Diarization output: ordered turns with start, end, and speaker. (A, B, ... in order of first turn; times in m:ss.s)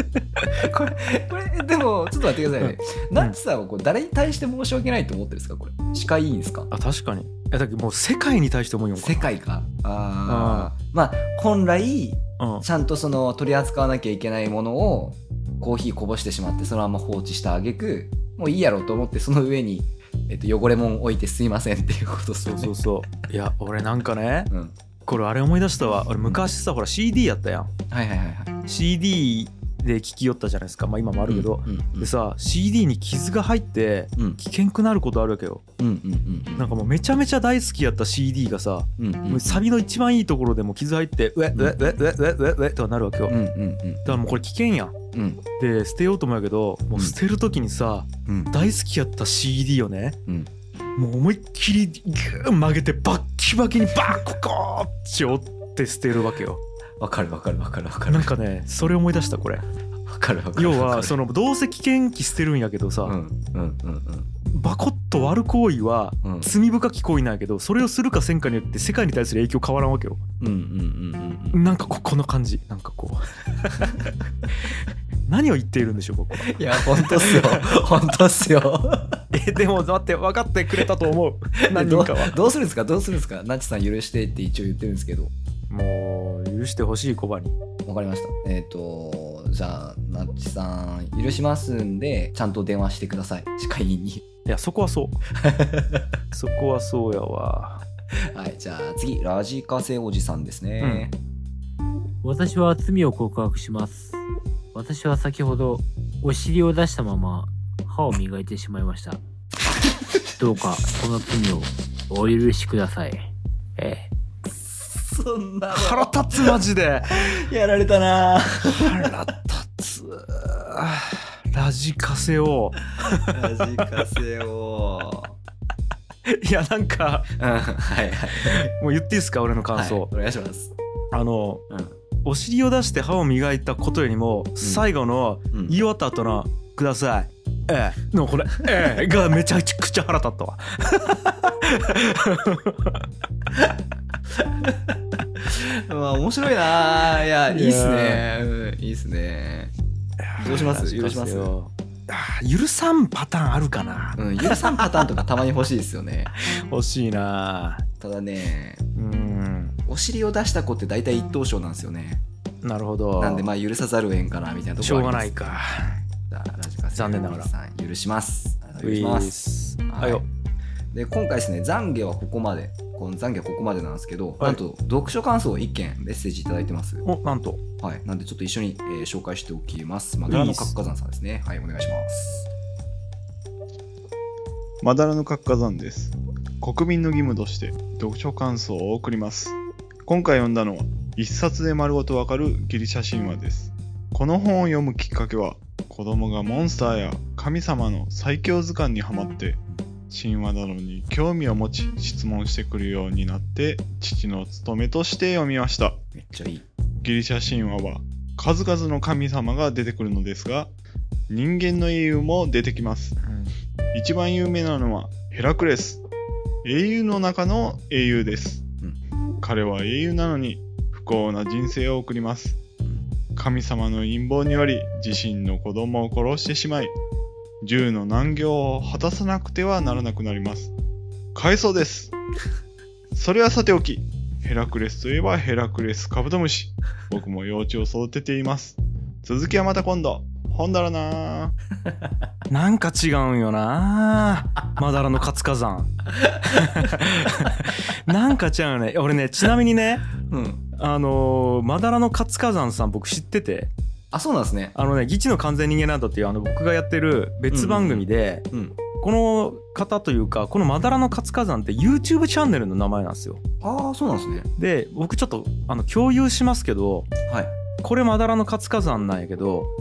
0:00.5-0:06.7 A
0:02.6-0:03.4 B
0:06.7-0:09.3 B
0:09.0-0:22.7 A
0:10.3-0:10.7 B
0:12.4-0:12.6 B
0:22.4-0:24.5 B
0:24.5-0:24.8 A
0:25.1-0:27.7 B
0:27.9-0:28.6 A
0:28.7-0:35.6 B
0:31.2-0:32.1 A
0:35.8-0:36.7 A
0:36.6-0:43.4 B
0:39.0-0:39.6 A
0:41.5-0:41.8 A
0:43.3-0:44.3 A
0:44.0-0:44.9 B
0:45.1-0:45.4 A
0:45.6-0:50.2 B
0:48.2-0:48.5 A
0:50.9-0:56.6 B
0:57.0-0:58.9 A
0:58.1-0:59.6 B
1:00.0-1:01.2 A
1:00.6-1:03.2 B
1:03.0-1:04.3 A
1:04.5-1:10.2 B
1:06.2-1:06.5 A
1:10.4-1:11.6 A
1:11.5-1:14.0 B
1:15.2-1:17.8 B
1:16.4-1:19.2 A
1:19.3-1:22.4 B
1:21.6-1:25.3 A
1:25.7-1:27.5 B
1:27.8-1:34.2 A
1:34.4-1:35.2 B
1:35.3-1:36.1 A
1:36.3-1:37.8 B
1:38.1-1:41.2 A
1:40.8-1:41.1 B
1:42.2-1:44.2 C
1:44.7-1:49.2 C
1:50.4-1:54.1 C
1:54.4-1:56.6 A
1:55.7-1:57.3 B
1:57.1-1:59.1 A
1:58.6-2:03.8 B
2:03.0-2:05.4 A
2:06.3-2:07.3 B
2:07.4-2:08.7 A
2:08.4-2:10.1 B
2:09.7-2:10.7 A
2:11.1-2:11.6 B
2:11.7-2:12.0 A
2:12.2-2:23.0 B
2:14.6-2:14.8 A
2:15.5-2:15.8 A
2:24.4-2:29.7 A
2:27.5-2:28.2 B
2:30.2-2:35.1 B
2:30.4-2:31.6 A
2:34.2-2:36.3 A
2:36.3-2:37.8 B
2:38.0-2:38.8 A
2:39.0-2:39.8 B
2:39.9-2:42.2 A
2:42.6-2:43.5 B
2:43.2-2:50.2 A
2:44.8-2:45.9 B
2:46.9-2:47.5 B
2:48.8-2:50.2 B
2:50.9-2:57.0 A
2:57.0-2:57.6 B
2:57.8-3:02.5 A
3:00.3-3:00.7 B
3:04.8-3:26.1 D
3:26.1-3:26.6 A
3:27.0-3:30.7 D
3:31.3-3:33.2 D
3:33.2-3:33.5 B
3:33.9-3:36.0 D
3:36.6-3:38.7 D
3:39.4-3:42.6 D
3:43.4-3:46.9 D
3:47.6-3:50.7 D
3:51.3-3:52.1 D
3:53.1-4:01.5 D
4:02.5-4:10.1 B
4:10.3-4:10.6 A
4:10.8-4:13.7 B
4:14.1-4:14.8 A
4:14.7-4:18.4 B
4:17.5-4:18.8 A
4:19.0-4:23.4 B
4:23.6-4:24.5 A
4:24.6-4:27.1 B
4:27.3-4:27.6 A
4:27.8-4:29.7 B